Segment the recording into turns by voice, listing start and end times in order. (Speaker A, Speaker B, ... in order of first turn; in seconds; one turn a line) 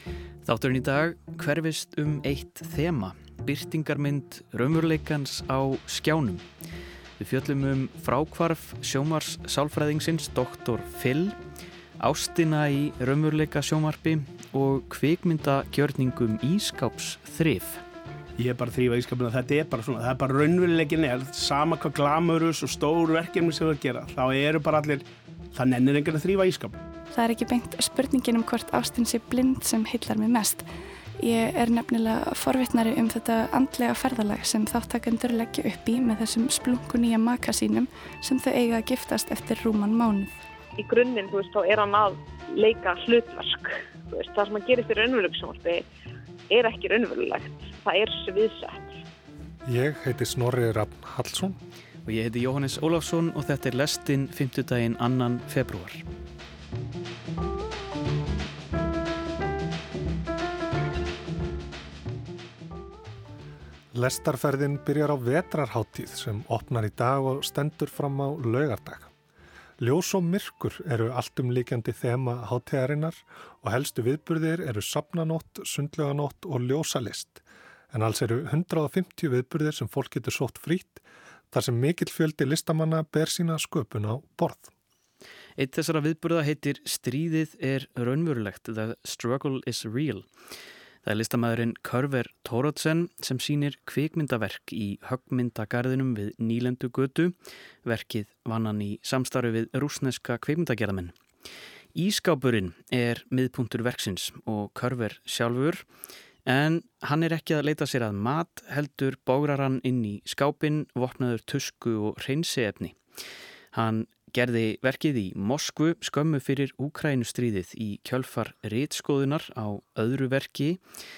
Speaker A: 0.4-6.5
Speaker A: 7.2-11.3
Speaker A: 12.0-17.8
Speaker B: 18.4-26.8
Speaker C: 27.1-30.6
Speaker C: 31.2-40.4
Speaker D: 40.8-45.8
Speaker D: 46.5-48.9
Speaker E: 49.6-51.5
Speaker A: 52.0-56.0
Speaker E: 63.9-69.1
Speaker E: 69.8-84.7
Speaker A: 85.6-90.3
Speaker A: 91.0-101.1
Speaker A: 101.9-105.8
Speaker A: 106.5-113.0
Speaker A: 113.7-120.8